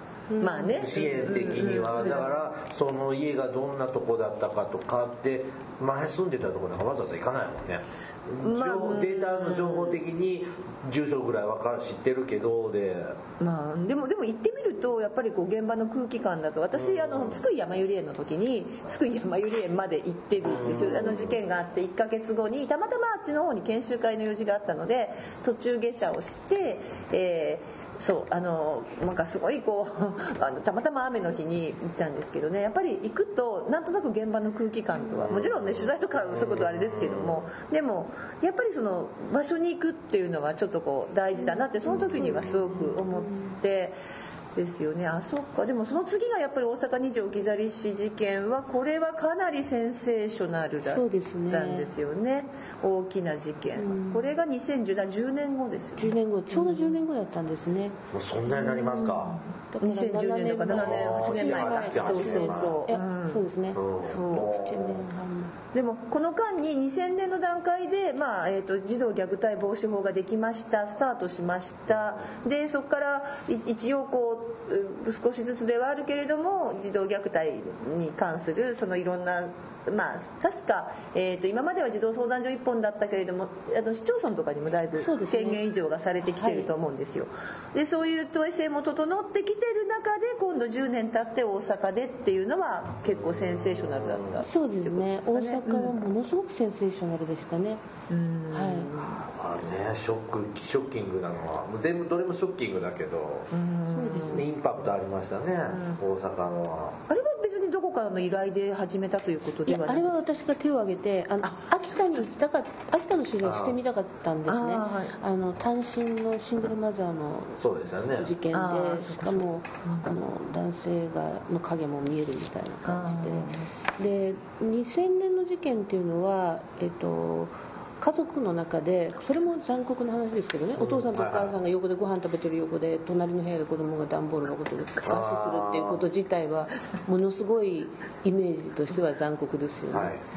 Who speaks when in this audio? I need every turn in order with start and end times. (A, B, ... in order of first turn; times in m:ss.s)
0:00.3-0:01.4 A
0:00.4-0:02.3 B
0:00.6-0:13.2 C
0:08.4-0:10.0 B
0:13.4-0:44.0 B
0:16.7-0:17.4 C
0:20.4-0:21.4 C
0:35.2-0:37.5 C
0:41.3-0:43.6 A
0:41.9-0:42.8 C
0:44.6-0:57.0 B
0:50.8-0:51.9 A
0:53.8-0:54.3 A
0:56.0-0:58.0 A
0:58.1-0:59.4 C
0:58.6-1:03.4 B
0:59.7-1:05.5 A
1:00.7-1:02.8 C
1:03.7-1:05.0 C
1:04.0-1:04.6 B
1:05.7-1:36.0 B
1:11.9-1:12.2 C
1:25.0-1:25.6 A
1:26.2-1:26.7 A
1:33.0-1:34.4 C
1:34.4-1:37.8 A
1:38.1-1:39.2 B
1:38.5-1:38.9 A
1:39.0-1:43.5 C
1:43.5-1:44.5 B
1:43.9-1:44.4 A
1:44.3-1:47.0 C
1:45.7-1:46.0 B
1:47.1-1:50.1 B
1:49.7-1:57.6 A
1:53.4-1:53.8 C
1:54.5-1:55.2 B
1:57.6-1:58.3 C
1:58.2-2:20.1 A
1:58.5-2:00.1 B
2:02.8-2:03.7 B
2:10.8-2:11.5 C
2:15.0-2:16.0 C
2:19.9-2:20.2 C